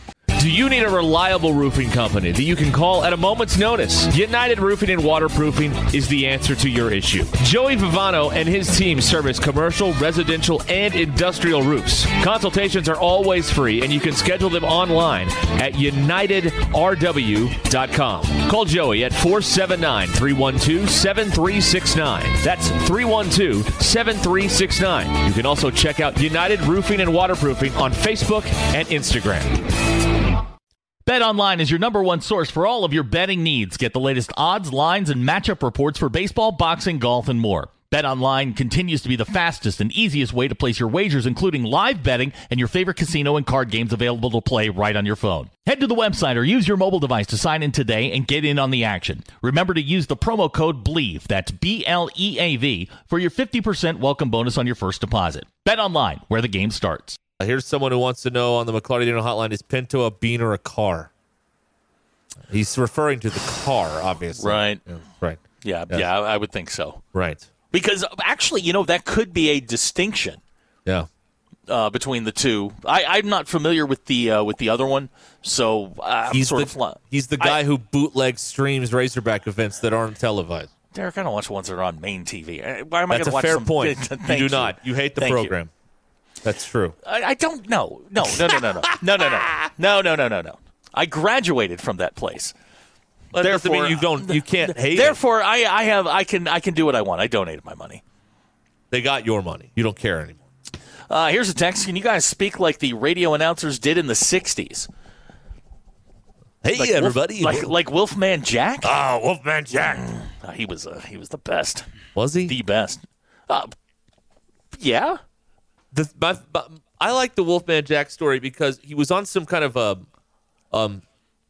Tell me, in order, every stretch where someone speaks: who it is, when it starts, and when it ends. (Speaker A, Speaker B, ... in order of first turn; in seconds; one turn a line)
Speaker A: 0.3-29.7
Speaker B: 31.1-57.2
Speaker C: 57.4-61.1
Speaker C: 62.5-66.1
Speaker B: 64.4-64.8
Speaker B: 65.6-67.0
Speaker C: 67.1-67.5
Speaker B: 67.7-70.4
Speaker B: 71.7-77.6
Speaker C: 76.3-80.7
Speaker B: 80.9-85.5
Speaker C: 83.1-85.7
Speaker C: 86.4-87.0
Speaker B: 87.0-92.5
Speaker C: 88.4-89.7
Speaker C: 93.3-95.2
Speaker B: 93.3-98.0
Speaker C: 98.9-100.4
Speaker B: 101.1-104.9
Speaker C: 106.6-107.7
Speaker B: 106.7-108.9
Speaker C: 108.8-110.1
Speaker B: 110.2-111.8
Speaker C: 112.1-112.5
Speaker B: 112.5-113.7
Speaker B: 114.7-115.2
Speaker C: 115.9-120.0
Speaker C: 120.7-121.0